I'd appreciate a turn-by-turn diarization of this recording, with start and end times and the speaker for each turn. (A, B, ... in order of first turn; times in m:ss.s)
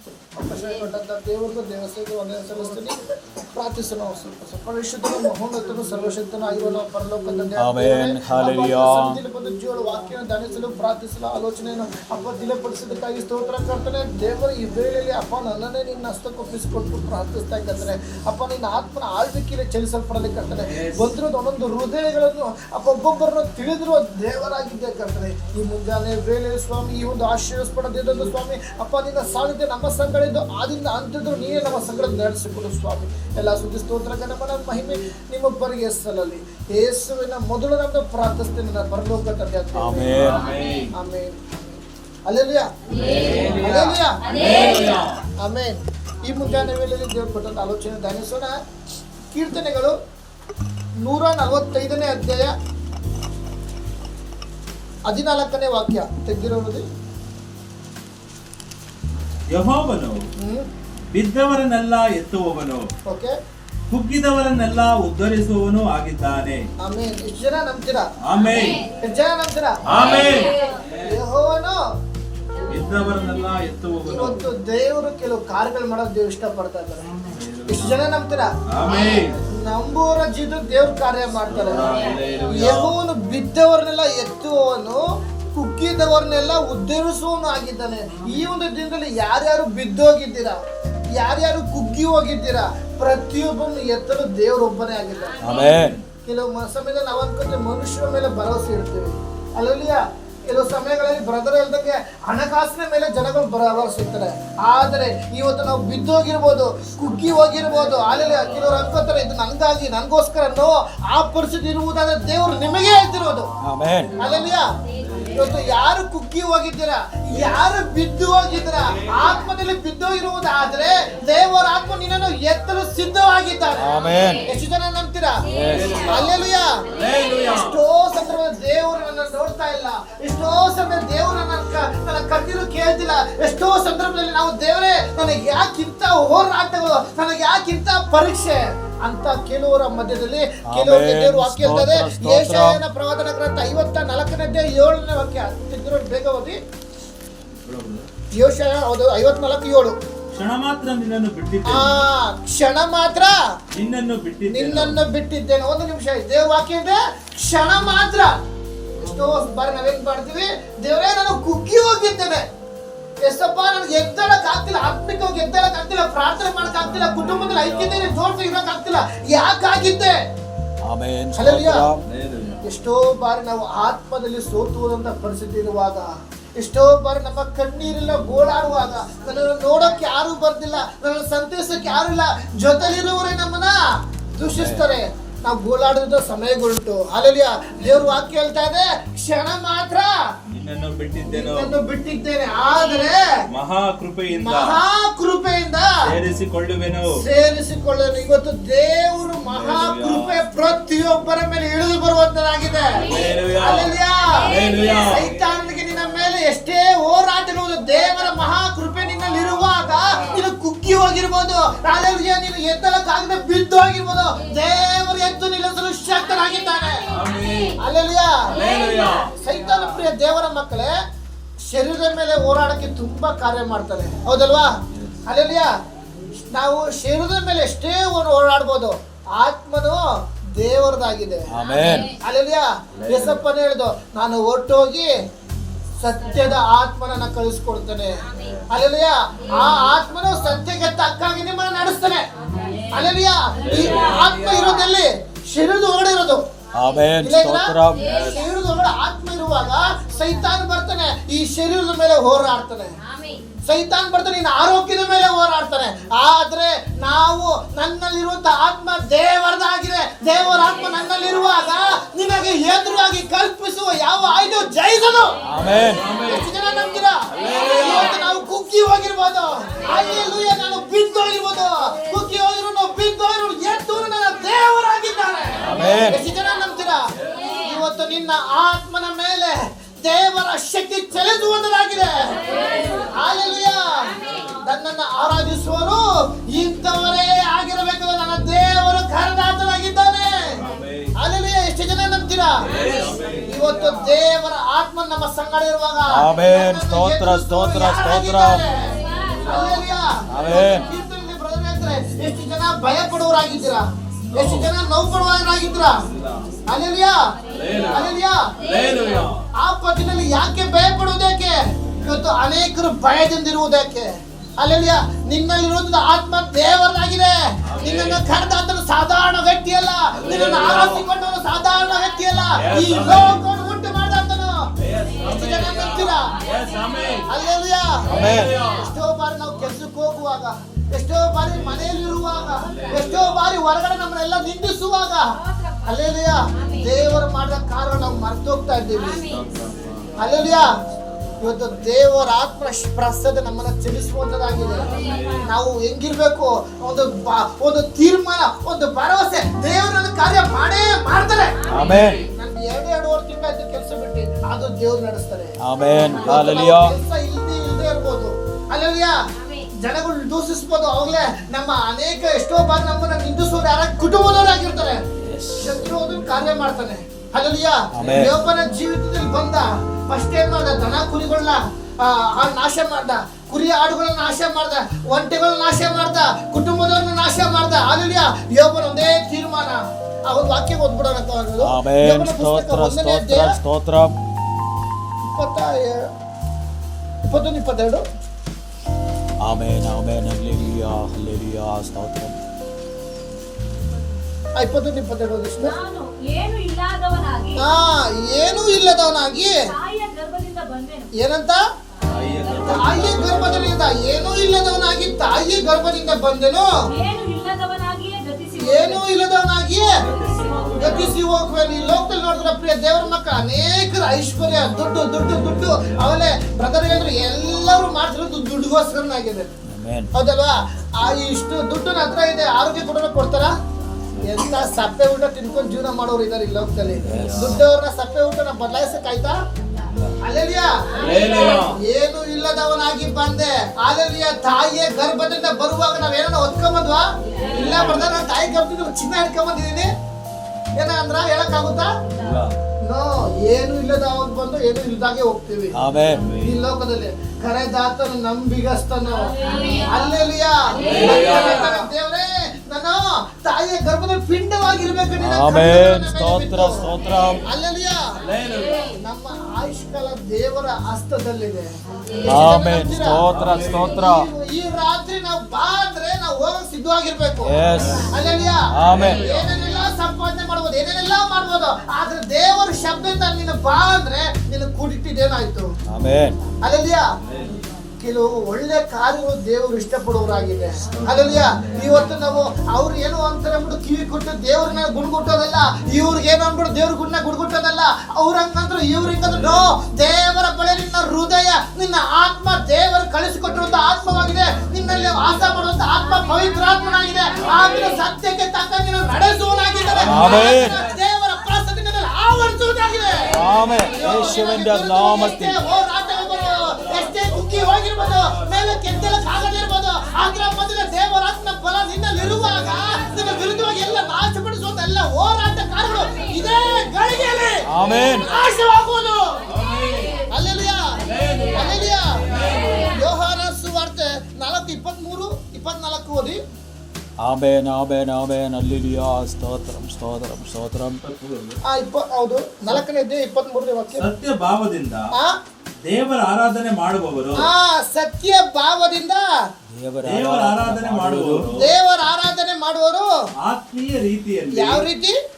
0:00.4-0:03.0 A
0:03.5-0:40.0 A
0:07.6-0:09.2 B
0:20.6-0:21.1 C
0:39.7-0:40.5 B
0:40.0-0:40.9 C
0:40.9-0:41.5 A
0:42.2-0:42.7 A
0:42.9-0:43.6 D
0:42.9-0:45.2 C
0:43.6-0:44.2 A
0:44.2-0:45.1 D
0:45.4-0:48.6 A
0:49.3-0:50.0 A
0:51.0-0:52.5 A
0:55.0-0:56.8 A
0:59.5-1:00.2 C
1:00.4-1:00.7 A
1:01.1-1:02.9 C
1:03.1-1:03.3 A
1:03.9-1:06.7 C
1:06.8-1:08.1 A
1:08.2-1:08.8 C
1:08.4-1:08.9 D
1:09.0-1:10.4 A
1:09.8-1:11.1 C
1:10.0-1:10.8 D
1:11.0-1:11.8 A
1:12.7-1:14.4 C
1:14.1-1:17.1 A
1:17.2-1:18.0 C
1:17.7-1:18.5 A
1:18.7-1:19.4 C
1:19.5-1:21.9 A
1:21.5-1:22.9 C
1:22.5-1:25.0 A
1:25.5-1:30.6 A
1:31.1-1:35.5 A
1:35.4-1:36.0 B
1:35.4-1:36.0 C
1:36.2-1:53.5 A
1:53.6-1:54.1 B
1:54.2-1:54.6 A
1:54.2-1:55.5 C
1:55.3-2:05.4 A
2:03.8-2:04.5 B
2:05.4-2:06.1 B
2:05.7-2:06.4 C
2:06.0-2:06.8 A
2:06.9-2:07.8 C
2:07.5-2:26.6 A
2:20.7-2:22.8 B
2:27.6-2:28.0 C
2:28.3-2:30.0 A
2:30.3-2:32.0 C
2:31.7-2:33.4 A
2:33.7-2:35.0 C
2:34.5-2:38.3 A
2:39.0-2:42.4 A
2:43.2-2:50.2 A
2:46.7-2:48.1 C
2:50.8-2:52.0 B
2:51.3-2:51.9 A
2:52.0-2:52.6 C
2:52.6-3:03.8 A
3:04.4-3:10.1 A
3:04.4-3:04.9 B
3:10.5-3:11.7 C
3:11.3-3:13.3 A
3:13.5-3:14.8 C
3:14.4-3:16.0 A
3:16.0-3:17.2 C
3:17.1-3:37.1 A
3:19.5-3:20.4 C
3:23.0-3:25.2 C
3:24.6-3:25.0 D
3:36.7-3:37.7 D
3:37.1-3:37.8 C
3:37.8-3:38.6 A
3:38.4-3:39.3 C
3:38.6-3:39.3 D
3:39.3-3:40.9 A
3:41.7-3:45.7 A
3:44.9-3:45.2 C
3:46.5-3:50.0 A
3:50.6-3:51.5 A
3:51.5-3:52.1 B
3:51.6-3:52.1 D
3:52.2-3:55.1 A
3:53.0-3:53.4 C
3:56.0-4:02.2 A
3:58.3-3:58.6 D
4:02.5-4:02.9 D
4:02.9-4:06.4 A
4:03.6-4:04.7 C
4:03.7-4:04.6 D
4:06.7-4:08.0 B
4:07.2-4:12.9 A
4:08.0-4:08.4 C
4:13.0-4:13.4 D
4:13.6-4:25.4 A
4:25.5-4:26.0 B
4:25.6-4:26.4 C
4:26.1-4:42.4 A
4:27.3-4:28.1 C
4:35.6-4:36.2 B
4:37.3-4:37.7 D
4:42.3-4:43.1 D
4:42.5-4:43.1 C
4:43.1-4:50.6 A
4:44.2-4:44.5 C
4:50.5-4:51.1 C
4:51.2-4:52.7 A
4:52.6-4:53.9 C
4:52.7-4:53.2 D
4:53.4-5:06.0 A
4:56.1-4:58.7 B
4:58.9-4:59.7 D
4:59.2-4:59.9 C
5:00.3-5:00.8 B
5:04.3-5:04.7 C
5:06.0-5:06.5 C
5:06.7-5:07.3 A
5:07.4-5:08.0 D
5:07.5-5:09.4 C
5:07.9-5:08.5 A
5:08.6-5:09.3 D
5:09.5-5:24.7 A
5:11.9-5:12.2 C
5:17.6-5:18.2 C
5:20.1-5:21.0 C
5:22.5-5:23.4 C
5:24.8-5:27.3 C
5:25.2-5:26.4 A
5:26.7-5:27.2 D
5:27.2-5:35.3 A
5:28.0-5:28.9 C
5:28.1-5:28.5 B
5:32.5-5:33.5 C
5:35.8-5:39.3 A
5:39.2-5:41.8 C
5:40.2-5:40.8 A
5:41.4-5:51.6 A
5:44.7-5:45.5 C
5:44.9-5:45.3 D
5:51.6-5:52.2 D
5:51.7-5:52.2 C
5:51.7-5:52.2 B
5:52.3-5:59.2 A
5:55.6-5:56.9 B
5:59.4-5:59.6 D
5:59.7-6:05.0 A
6:05.2-6:05.9 B
6:05.6-6:23.5 A
6:07.9-6:08.3 B
6:21.6-6:24.1 B
6:25.3-6:26.1 A
6:27.2-6:28.0 A
6:29.4-6:32.4 B
6:34.6-6:35.7 A
6:35.6-6:37.6 D
6:37.6-6:39.6 A
6:39.7-6:41.1 D
6:41.1-6:41.6 A
6:42.0-6:43.0 D
6:42.1-6:43.8 C
6:42.5-6:46.7 A
6:46.9-6:49.0 D
6:48.6-6:50.0 A
6:50.0-6:51.2 C
6:50.0-6:51.2 D
6:50.8-6:59.5 A
6:55.3-6:56.1 C
6:59.6-7:00.1 B
7:00.1-7:03.5 A
7:04.2-7:09.4 A
7:06.9-7:07.6 C
7:07.0-7:07.6 B
7:09.9-7:10.1 C
7:10.2-7:19.9 A
7:10.9-7:11.8 C
7:11.0-7:11.6 D
7:17.3-7:17.7 D
7:17.4-7:18.2 C
7:20.8-7:21.9 A
7:22.1-7:22.5 C
7:22.8-7:25.7 A
7:25.7-7:26.3 B
7:26.1-7:26.6 C
7:26.4-7:36.9 A
7:29.2-7:30.1 D
7:30.7-7:31.7 D
7:30.8-7:31.8 C
7:35.2-7:37.5 B
7:37.4-7:38.2 A
7:38.2-7:38.9 C
7:38.4-7:38.9 D
7:39.0-7:47.6 A
7:42.2-7:44.3 B
7:43.3-7:44.0 C
7:47.4-7:48.1 B
7:47.7-7:48.2 C
7:48.1-7:55.7 A
7:48.7-7:49.2 B
7:48.9-7:49.5 C
7:55.9-7:56.4 B
7:56.6-7:57.1 A
7:57.2-7:57.6 C
7:58.0-8:39.4 A
8:00.9-8:02.1 C
8:09.2-8:09.7 C
8:14.6-8:15.5 C
8:16.1-8:18.0 D
8:17.4-8:17.9 C
8:19.9-8:20.9 C
8:20.0-8:20.8 B
8:23.3-8:25.6 B
8:26.7-8:29.0 C
8:32.3-8:33.5 C
8:37.7-8:38.3 B
8:37.8-8:38.2 C
8:39.5-8:40.1 C
8:40.3-8:46.4 A
8:41.1-8:42.9 C
8:47.2-8:51.0 B
8:51.0-8:51.6 C
8:51.6-8:54.0 A
8:53.9-8:55.1 C
8:55.8-8:57.5 C
8:57.4-8:59.2 A
8:59.7-9:01.6 B
9:00.0-9:01.7 C
9:01.6-9:03.1 A
9:03.4-9:04.8 C
9:04.5-9:05.2 A